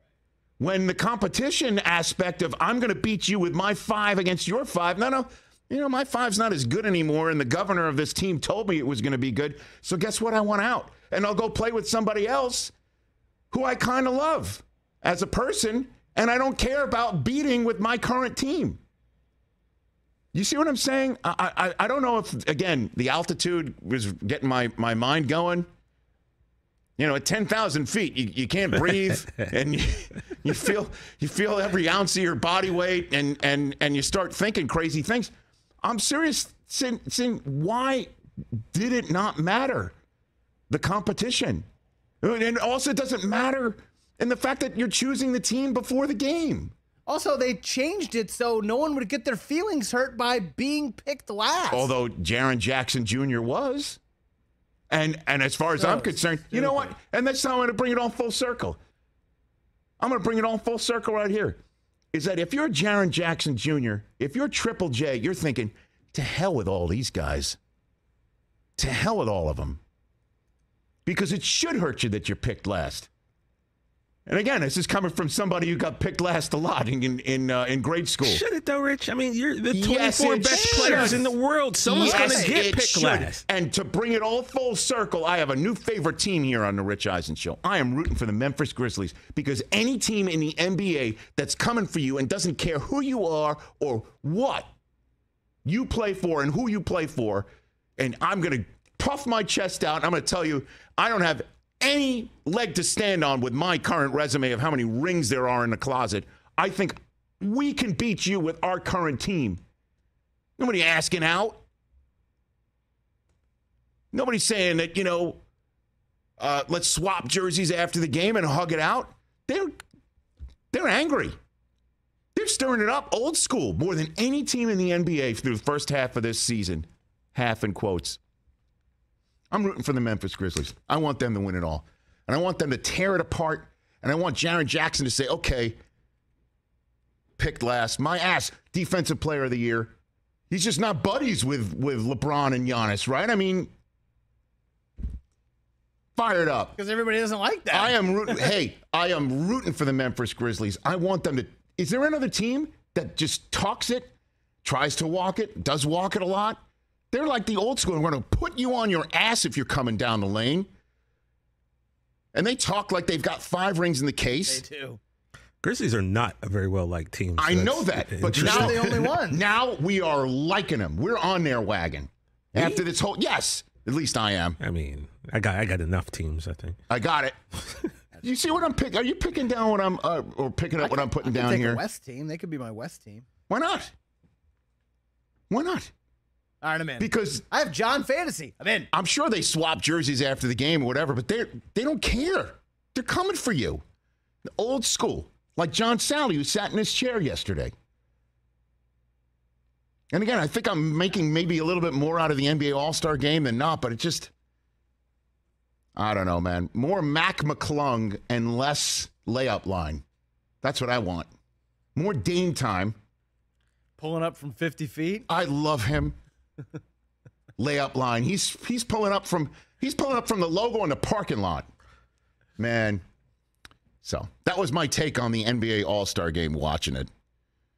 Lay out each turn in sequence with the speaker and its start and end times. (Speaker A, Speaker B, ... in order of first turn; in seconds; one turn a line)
Speaker A: 0.6-12.7
Speaker A: 13.5-18.8
Speaker A: 20.3-25.7
Speaker A: 27.0-35.3
Speaker A: 35.8-39.9
Speaker A: 40.7-41.6
Speaker A: 42.2-46.7
Speaker B: 47.1-51.9
Speaker A: 51.7-54.0
Speaker A: 54.9-58.8
Speaker B: 55.8-56.9
Speaker A: 60.0-61.6
Speaker A: 62.1-67.6
Speaker A: 68.8-69.8
Speaker A: 71.1-73.1
Speaker A: 74.2-78.4
Speaker C: 78.2-83.4
Speaker A: 79.7-81.3
Speaker B: 80.5-81.2
Speaker B: 81.8-82.6
Speaker A: 81.9-94.7
Speaker A: 95.7-97.5
Speaker A: 98.0-109.6
Speaker A: 110.6-111.6
Speaker A: 114.1-115.4
Speaker A: 116.4-119.8
Speaker A: 120.7-121.3
Speaker A: 122.3-128.2
Speaker A: 129.5-135.8
Speaker A: 137.4-139.9
Speaker A: 140.5-143.7
Speaker A: 146.1-146.8
Speaker B: 146.8-148.5
Speaker A: 147.7-154.1
Speaker A: 154.6-156.6
Speaker A: 157.1-160.7
Speaker A: 162.3-164.6
Speaker B: 164.4-165.0
Speaker C: 165.6-169.0
Speaker A: 167.4-174.6
Speaker B: 168.3-169.4
Speaker C: 172.5-172.8
Speaker C: 174.6-176.8
Speaker A: 176.9-177.4
Speaker A: 178.2-181.8
Speaker B: 180.8-183.3
Speaker A: 183.5-183.9
Speaker A: 185.5-185.9
Speaker B: 186.6-188.9
Speaker A: 187.0-187.4
Speaker A: 188.9-193.8
Speaker A: 194.6-197.7
Speaker A: 200.1-204.3
Speaker A: 206.0-210.0
Speaker A: 210.6-211.3
Speaker A: 211.9-213.0
Speaker B: 214.0-215.2
Speaker A: 215.3-216.2
Speaker A: 217.6-221.7
Speaker A: 222.6-223.0
Speaker A: 224.0-227.1